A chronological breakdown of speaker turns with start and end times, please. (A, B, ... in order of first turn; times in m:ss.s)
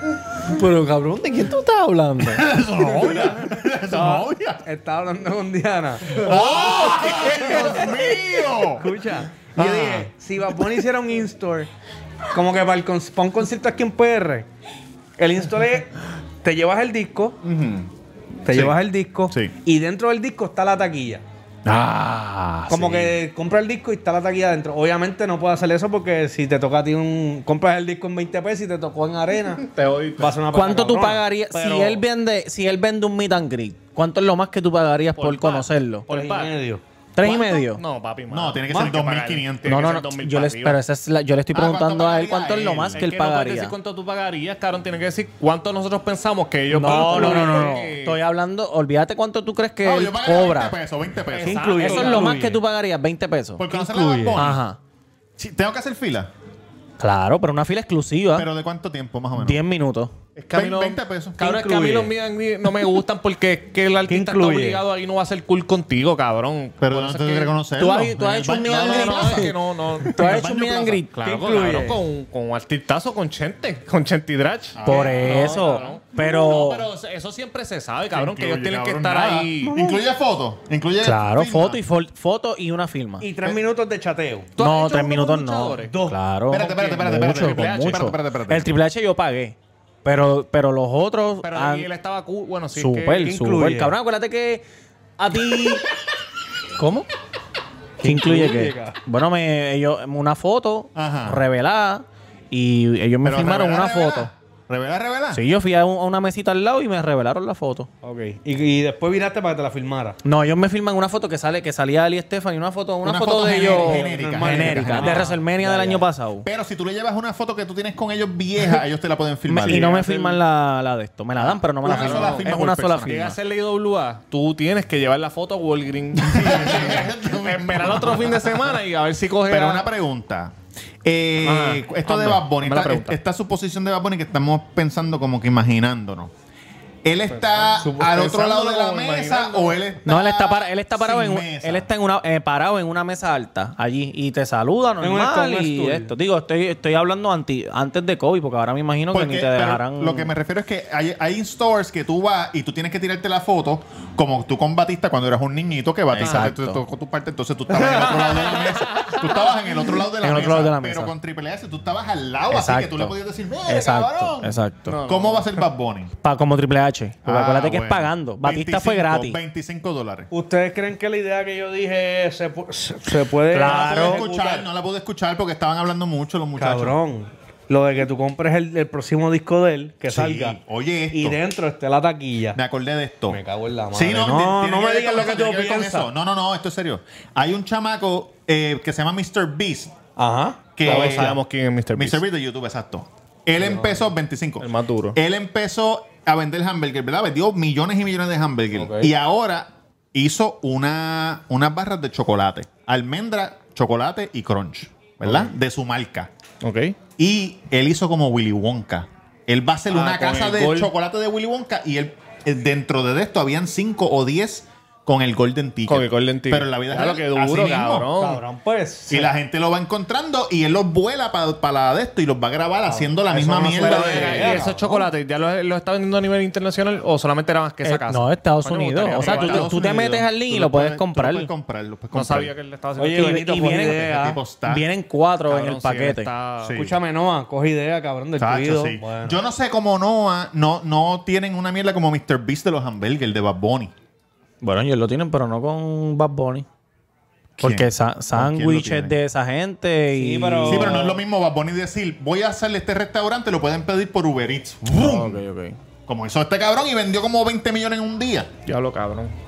0:00.4-0:02.5 A
0:02.2-0:04.6 B
0:02.8-0:03.4 C
0:03.9-0:11.7 C
0:06.1-0:08.9 B
0:09.6-0:10.1 B
0:12.3-0:14.5 C
0:15.2-0:15.9 C
0:16.4-0:17.4 C
0:17.4-0:17.9 B
0:18.4-0:21.2 C
0:18.5-0:18.8 B
0:21.6-0:23.2 B
0:22.7-0:29.7 C
0:29.6-0:30.4 D
0:30.2-0:32.0 C
0:30.5-0:36.1 A
0:35.2-0:36.6 D
0:36.1-0:36.8 C
0:37.2-0:37.8 A
0:37.2-0:40.8 D
0:38.3-0:39.9 B
0:38.7-0:39.0 C
0:39.7-0:43.8 A
0:41.5-0:43.1 B
0:43.0-0:48.2 D
0:46.7-0:50.8 A
0:46.8-0:47.7 C
0:49.8-0:51.8 B
0:51.3-0:52.4 D
0:51.4-0:52.6 C
0:51.8-0:53.6 A
0:53.6-0:54.6 B
0:53.7-0:54.4 C
0:54.4-0:54.8 A
0:55.4-0:56.3 B
0:57.0-0:58.5 A
0:58.4-0:59.6 B
0:59.4-1:00.1 A
1:00.4-1:07.5 D
1:00.5-1:01.4 B
1:01.4-1:02.0 C
1:04.1-1:04.8 C
1:06.8-1:11.0 B
1:07.8-1:09.5 A
1:08.6-1:10.6 D
1:10.1-1:11.1 A
1:11.1-1:19.8 D
1:11.2-1:12.0 C
1:14.8-1:15.6 B
1:14.9-1:16.9 A
1:15.4-1:15.7 C
1:18.1-1:21.8 B
1:21.0-1:23.3 A
1:23.2-1:24.5 C
1:24.6-1:26.0 D
1:24.6-1:31.9 A
1:25.8-1:26.2 C
1:26.5-1:28.7 B
1:26.6-1:28.1 D
1:31.4-1:33.3 D
1:32.7-1:34.6 A
1:33.2-1:34.0 C
1:35.2-1:35.8 A
1:36.8-1:37.1 A
1:38.0-1:39.0 C
1:38.0-1:44.3 A
1:41.0-1:41.4 B
1:43.2-1:45.4 B
1:45.3-1:47.9 A
1:48.0-1:50.2 C
1:50.2-1:56.5 A
1:53.0-1:55.3 B
1:53.6-1:56.1 C
1:55.0-1:55.2 D
1:56.4-1:59.9 B
1:59.5-2:03.4 A
1:59.6-2:00.4 D
2:01.4-2:03.3 B
2:01.8-2:09.9 D
2:06.2-2:08.8 B
2:09.5-2:10.5 B
2:11.0-2:16.3 B
2:11.4-2:13.2 D
2:17.0-2:21.9 B
2:17.6-2:19.8 D
2:17.8-2:18.4 C
2:20.0-2:30.3 A
2:25.0-2:26.1 C
2:29.1-2:46.1 B
2:36.1-2:36.8 A
2:36.2-2:36.5 D
2:37.8-2:39.2 D
2:40.2-2:41.1 A
2:42.5-2:43.2 A
2:43.7-2:45.0 A
2:44.9-2:45.6 D
2:46.2-2:49.4 A
2:47.2-2:50.3 B
2:50.3-2:54.7 C
2:53.5-2:54.2 A
2:53.6-2:57.0 B
2:56.6-3:00.6 C
3:00.1-3:01.4 B
3:01.1-3:02.6 C
3:02.5-3:03.4 B
3:03.3-3:06.1 C
3:03.9-3:10.0 B
3:10.2-3:11.4 C
3:10.8-3:11.4 B
3:10.8-3:12.2 D
3:12.0-3:26.3 B
3:13.6-3:14.0 C
3:14.6-3:15.2 D
3:18.8-3:19.1 C
3:25.2-3:25.5 D
3:26.6-3:27.0 D
3:27.2-3:38.1 B
3:29.9-3:30.9 D
3:35.9-3:38.4 D
3:38.2-3:39.3 C
3:39.1-3:44.7 B
3:42.9-3:45.1 C
3:43.7-3:49.7 D
3:47.8-3:51.5 A
3:49.2-3:52.5 B
3:52.1-3:53.9 D
3:53.0-3:54.4 C
3:53.1-3:54.1 A
3:54.0-3:54.8 B
3:54.6-3:56.3 A
3:55.5-3:56.8 D
3:56.6-3:57.0 B
3:56.7-3:59.4 C
3:58.4-4:03.9 B
4:04.6-4:06.7 A
4:07.6-4:09.2 B
4:07.6-4:11.0 A
4:10.1-4:11.2 C
4:10.6-4:15.4 B
4:14.9-4:15.8 A
4:16.1-4:18.5 B
4:18.7-4:19.3 D